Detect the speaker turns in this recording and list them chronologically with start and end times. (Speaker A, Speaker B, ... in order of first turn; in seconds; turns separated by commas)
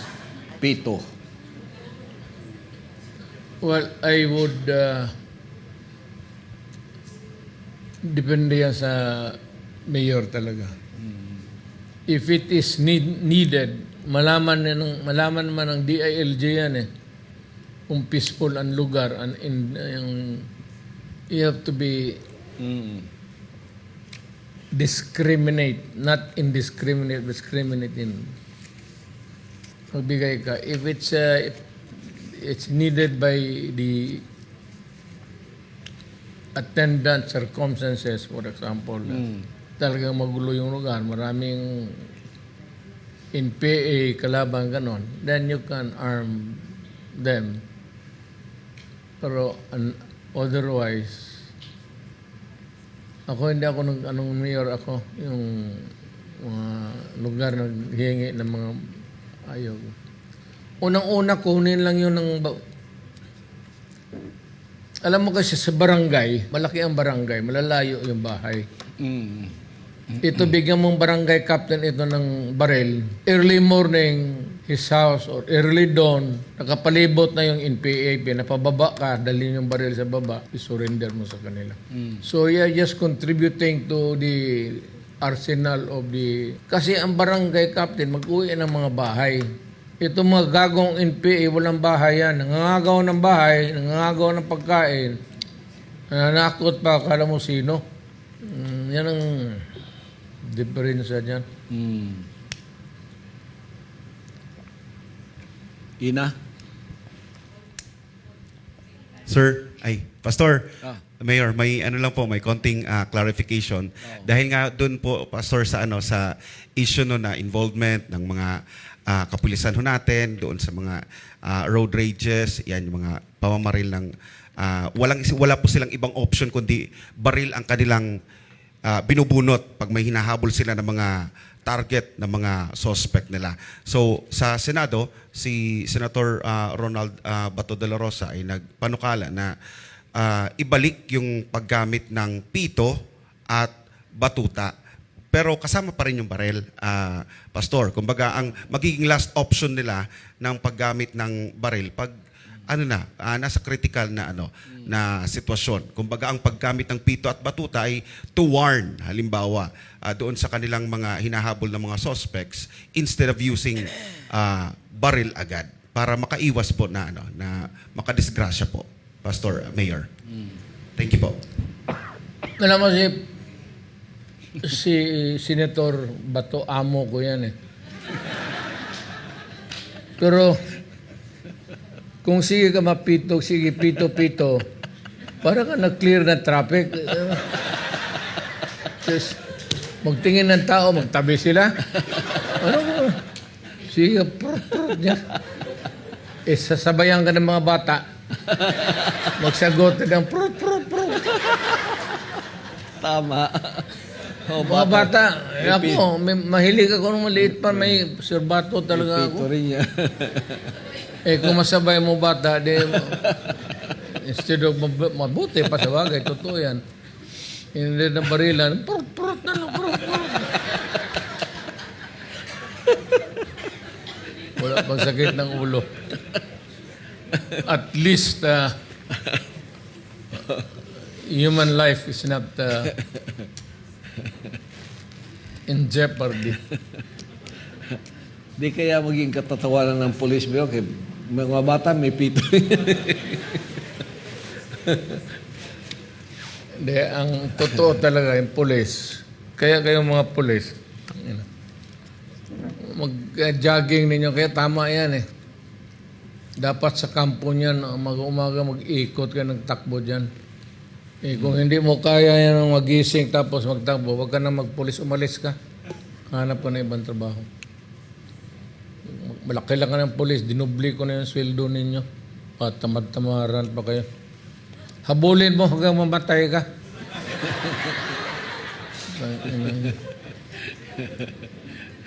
Speaker A: 0.6-1.0, Speaker B: 3.6-5.1, Speaker B: 8.0-10.7, Speaker B: 12.1-16.9, Speaker B: 17.9-20.5, Speaker B: 21.3-22.2, Speaker A: 22.6-23.0, Speaker B: 24.7-28.3, Speaker B: 29.9-34.2, Speaker B: 36.5-39.2, Speaker B: 39.8-42.0, Speaker B: 43.3-47.6, Speaker B: 49.2-51.4, Speaker B: 53.3-58.8, Speaker B: 59.5-59.9, Speaker B: 60.8-62.6, Speaker B: 65.0-68.7, Speaker A: 69.0-69.5, Speaker B: 70.2-89.5, Speaker B: 90.0-95.2, Speaker B: 96.1-97.8, Speaker B: 98.4-99.6, Speaker B: 100.4-101.4, Speaker A: 101.7-102.2, Speaker A: 106.0-106.3, Speaker C: 109.2-128.1, Speaker C: 128.9-131.1, Speaker C: 131.7-139.5, Speaker C: 140.2-142.9, Speaker C: 143.5-144.7, Speaker C: 145.3-152.1, Speaker C: 152.7-170.1, Speaker C: 171.0-171.4, Speaker B: 172.6-173.2, Speaker B: 174.6-177.5, Speaker B: 180.2-180.6, Speaker B: 182.2-184.6, Speaker B: 185.4-187.4, Speaker B: 189.0-189.4, Speaker B: 190.0-191.8, Speaker B: 192.4-193.2, Speaker B: 193.9-195.2, Speaker B: 196.4-198.0, Speaker A: 198.5-199.0, Speaker B: 199.4-201.5, Speaker A: 203.0-203.9, Speaker A: 204.5-205.1, Speaker B: 204.6-209.5, Speaker A: 205.6-206.0, Speaker A: 207.6-208.0, Speaker A: 208.9-210.7, Speaker B: 211.2-213.2, Speaker A: 212.9-213.4, Speaker B: 213.9-216.8, Speaker B: 217.7-220.6, Speaker B: 224.6-225.9, Speaker B: 227.5-228.7, Speaker B: 231.1-232.9, Speaker B: 235.7-236.6, Speaker A: 238.6-243.6, Speaker A: 244.8-245.2, Speaker B: 246.8-251.4, Speaker B: 252.8-255.2, Speaker B: 256.6-260.3, Speaker B: 261.2-265.6, Speaker B: 266.3-267.4, Speaker B: 269.1-272.0, Speaker B: 272.6-274.1, Speaker B: 275.0-276.6, Speaker B: 279.1-280.0